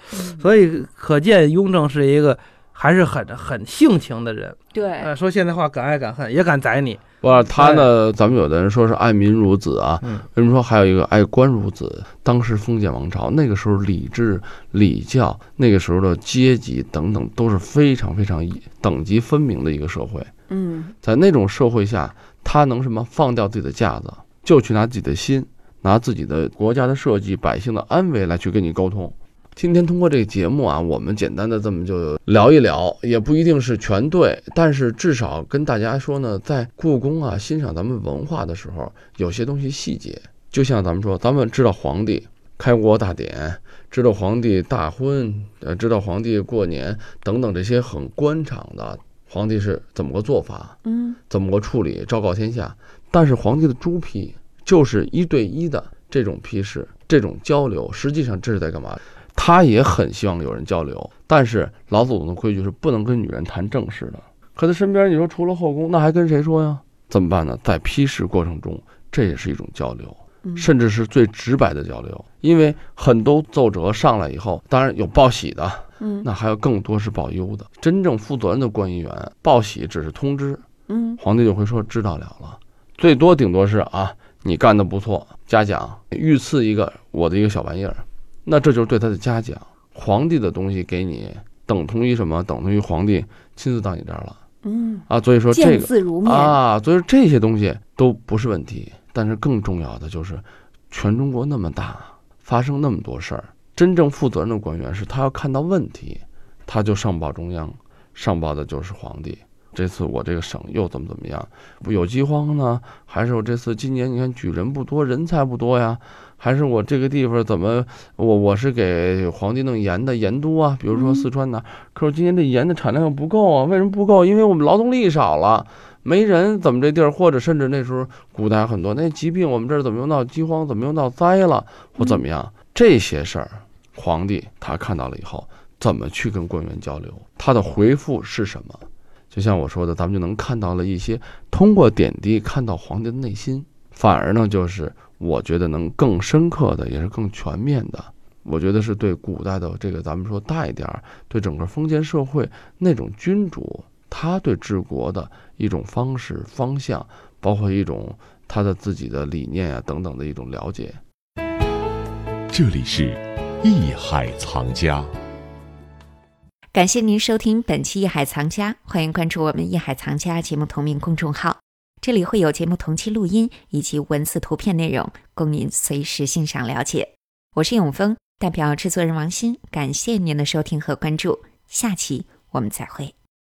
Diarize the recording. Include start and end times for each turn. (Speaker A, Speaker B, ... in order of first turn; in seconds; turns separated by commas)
Speaker A: 0.1-0.4, Speaker B: 0.3-7.0, Speaker A: 4.7-5.1, Speaker C: 7.2-20.3, Speaker B: 7.6-7.9, Speaker A: 20.5-20.9, Speaker C: 21.0-50.8, Speaker A: 50.9-51.2, Speaker C: 51.3-80.6, Speaker A: 76.0-76.3, Speaker A: 80.9-81.2, Speaker C: 81.2-94.4, Speaker A: 94.7-96.6, Speaker C: 95.1-161.0, Speaker A: 120.9-121.2, Speaker D: 162.5-165.1, Speaker E: 166.7-183.1